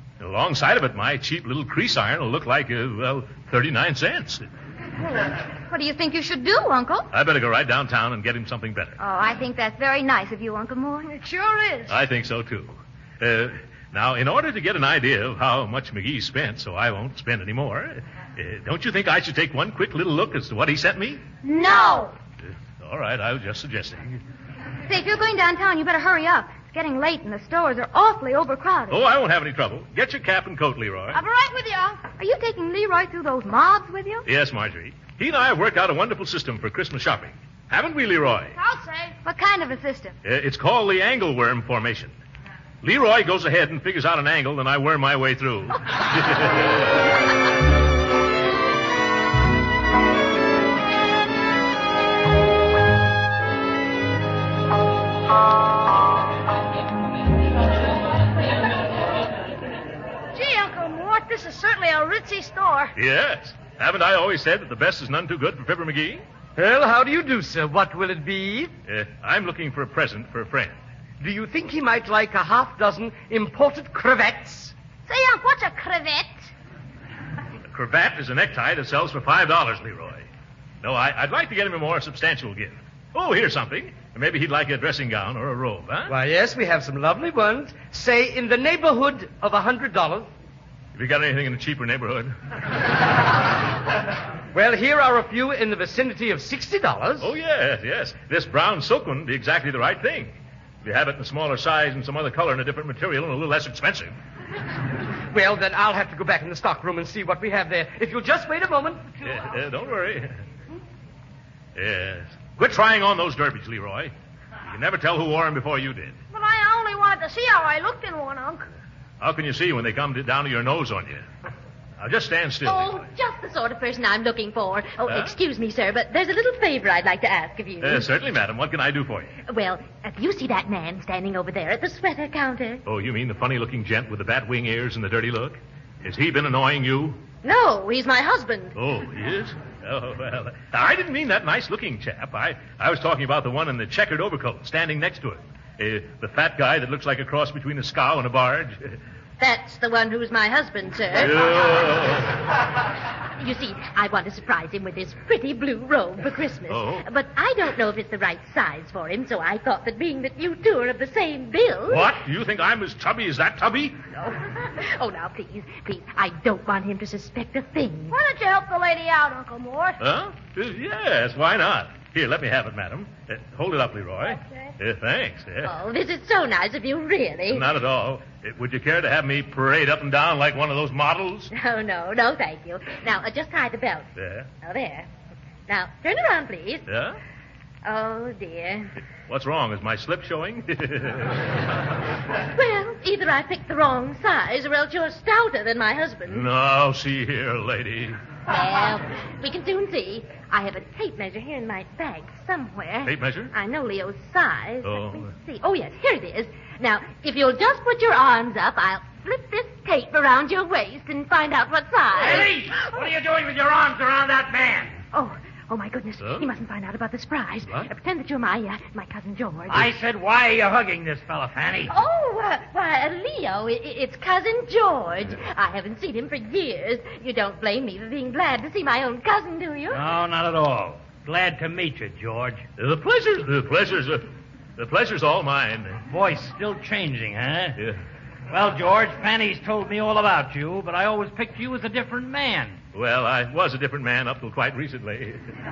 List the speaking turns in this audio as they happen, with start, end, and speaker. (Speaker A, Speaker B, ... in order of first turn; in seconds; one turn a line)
Speaker A: 0.2-4.4
Speaker B: 5.2-7.1
Speaker A: 7.1-9.0
Speaker B: 9.0-11.1
Speaker C: 11.0-11.9
Speaker A: 11.9-21.2
Speaker B: 21.4-22.0
Speaker C: 21.6-22.1
Speaker A: 22.5-24.2
Speaker B: 24.9-29.0
Speaker A: 28.9-31.2
Speaker C: 31.1-32.0
Speaker B: 32.2-34.3
Speaker A: 34.2-38.6
Speaker C: 38.6-39.1
Speaker B: 39.2-40.1
Speaker A: 40.2-42.1
Speaker A: 42.8-46.8
Speaker C: 60.3-62.9
Speaker A: 63.0-66.2
Speaker D: 66.6-68.7
Speaker A: 68.9-70.8
Speaker D: 71.2-74.7
Speaker C: 75.1-76.5
Speaker A: 77.7-80.2
Speaker A: 80.8-86.1
Speaker D: 86.1-90.3
Speaker A: 90.9-92.3
Speaker D: 94.5-97.3
Speaker A: 97.2-104.2
Speaker D: 105.3-109.4
Speaker A: 109.2-110.4
Speaker A: 111.7-114.1
Speaker A: 114.7-116.2
Speaker C: 116.3-118.7
Speaker A: 119.2-121.2
Speaker A: 122.0-123.0
Speaker E: 122.6-128.1
Speaker A: 125.1-125.3
Speaker A: 127.8-129.3
Speaker E: 129.5-132.8
Speaker A: 132.8-137.2
Speaker E: 137.4-138.7
Speaker A: 138.8-149.0
Speaker E: 149.4-151.6
Speaker A: 151.2-152.3
Speaker E: 153.4-162.1
Speaker A: 156.7-157.1
Speaker A: 161.9-164.0
Speaker E: 164.2-168.2
Speaker C: 168.1-170.0
Speaker A: 170.0-175.7
Speaker C: 174.2-174.7
Speaker E: 175.6-177.7
Speaker A: 177.5-181.5
Speaker E: 181.5-184.1
Speaker A: 184.2-184.5
Speaker E: 184.6-185.1
Speaker E: 185.7-186.9
Speaker A: 186.9-187.2
Speaker E: 187.8-188.9
Speaker A: 189.3-191.6
Speaker E: 192.5-196.5
Speaker A: 196.3-198.2
Speaker E: 198.5-212.5
Speaker A: 203.0-203.5
Speaker A: 204.8-205.3
Speaker F: 212.1-215.0
Speaker E: 215.1-219.9
Speaker A: 216.2-216.5
Speaker F: 219.7-221.9
Speaker E: 221.9-230.0
Speaker F: 229.9-232.7
Speaker A: 232.8-236.0
Speaker F: 236.1-237.8
Speaker F: 238.5-242.8
Speaker A: 242.9-245.4